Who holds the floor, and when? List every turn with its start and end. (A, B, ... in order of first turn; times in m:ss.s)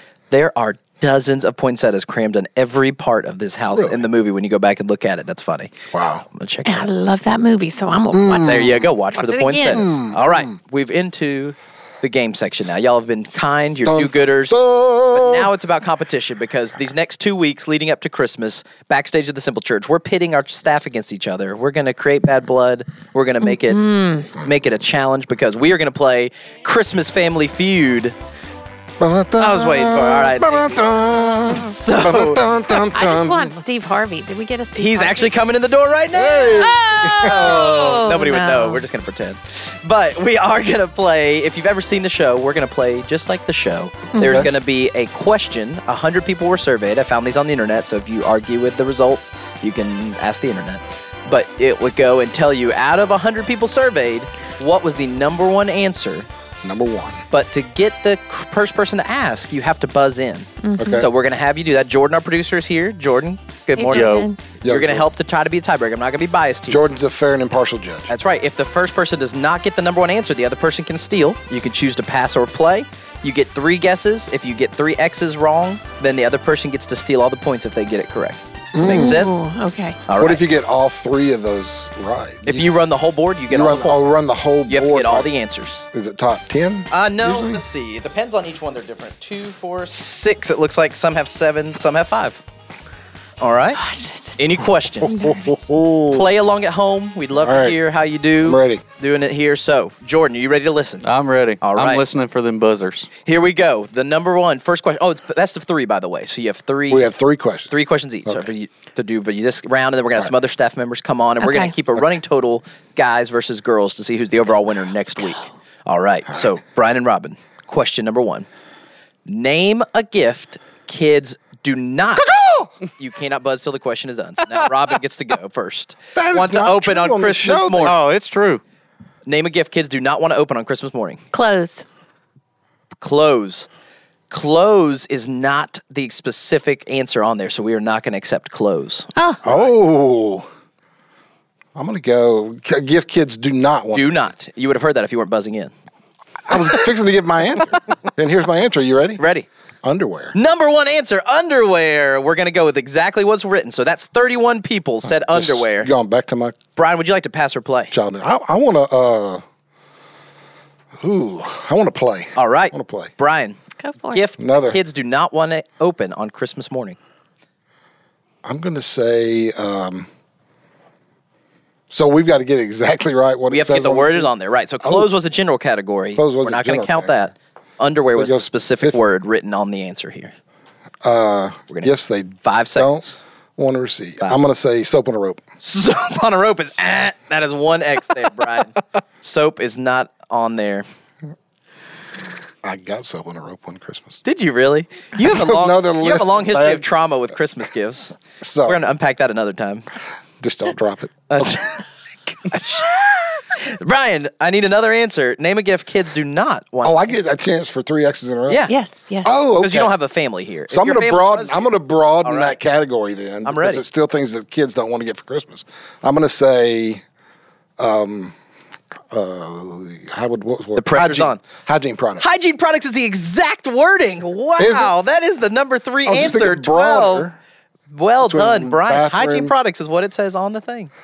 0:00.3-0:05.7 A
0:03.7-0:04.0 B
0:05.9-0:06.2 B
0:06.3-0:06.9 A
0:06.6-0:10.0 C
0:08.1-0:08.9 B
0:08.4-0:14.6 A
0:09.7-0:10.5 B
0:13.8-0:15.5 B
0:15.1-0:23.8 A
0:23.4-0:24.3 C
0:24.4-0:28.1 A
0:29.0-0:33.6 B
0:29.4-0:30.8 A
0:31.5-0:32.4 A
0:32.9-0:35.3 C
0:34.8-0:56.3 A
0:36.1-0:38.0 B
0:36.6-0:38.8 C
0:44.1-0:44.5 C
0:44.2-0:44.5 B
0:56.6-0:57.2 B
0:57.3-1:06.8 A
1:00.6-1:01.1 C
1:00.8-1:01.1 B
1:03.8-1:04.4 C
1:03.9-1:04.3 D
1:04.6-1:05.1 B
1:06.7-1:08.1 B
1:08.1-1:19.4 A
1:18.7-1:19.2 B
1:18.9-1:20.0 C
1:20.1-1:20.4 A
1:20.2-1:22.7 B
1:22.4-1:24.2 A
1:23.5-1:25.3 B
1:24.7-1:25.8 A
1:25.9-1:27.6 B
1:26.9-1:32.4 A
1:33.4-1:33.8 A
1:33.7-1:34.4 C
1:34.4-1:35.2 A
1:35.0-1:36.3 B
1:35.0-1:35.6 C
1:36.1-1:41.0 A
1:37.4-1:37.8 B
1:38.4-1:38.8 B
1:41.0-1:43.1 D
1:41.6-1:42.0 A
1:43.2-1:47.1 A
1:46.9-1:47.7 B
1:47.7-1:58.5 A
1:51.4-1:51.7 C
1:55.2-1:55.4 C
1:59.2-2:02.3 A
2:02.2-2:02.7 B
2:03.0-2:08.0 A
2:06.1-2:07.9 B
2:07.8-2:08.6 D
2:09.2-2:11.2 A
2:11.3-2:11.8 C
2:13.0-2:13.7 A
2:14.3-2:19.6 A
2:19.2-2:19.4 C
2:19.4-2:20.5 B
2:21.7-2:24.3 B
2:23.9-2:25.7 A
2:26.5-2:29.2 B
2:29.2-2:29.5 A
2:29.8-2:30.3 B
2:30.3-2:35.9 A
2:35.0-2:36.6 B
2:36.8-2:37.9 A
2:37.9-2:39.4 B
2:41.0-2:43.1 B
2:42.4-2:43.6 A
2:43.8-2:44.2 C
2:44.1-2:47.0 A
2:44.4-2:44.8 B
2:48.4-2:50.1 B
2:51.9-2:54.3 B
2:53.5-3:00.3 A
2:54.8-2:55.1 B
2:56.2-2:57.2 B
2:58.1-2:59.0 B
3:01.0-3:03.0 B
3:01.7-3:03.2 A
3:03.6-3:05.4 B
3:05.6-3:10.8 A
3:12.6-3:14.2 B
3:14.2-3:19.8 A
3:15.2-3:16.9 B
3:18.4-3:18.8 B
3:20.4-3:21.6 B
3:21.3-3:21.8 A
3:22.4-3:27.1 A
3:26.8-3:28.7 B
3:28.5-3:28.7 A
3:28.7-3:29.3 C
3:29.2-3:29.9 B
3:29.6-3:31.7 A
3:30.7-3:37.0 B
3:32.2-3:32.6 A
3:33.4-3:33.8 A
3:37.8-3:38.3 B
3:39.1-3:42.2 B
3:40.8-3:41.4 A
3:42.2-3:47.3 A
3:44.6-3:44.9 B
3:46.0-3:47.4 B
3:47.9-3:50.9 A
3:48.2-3:49.5 B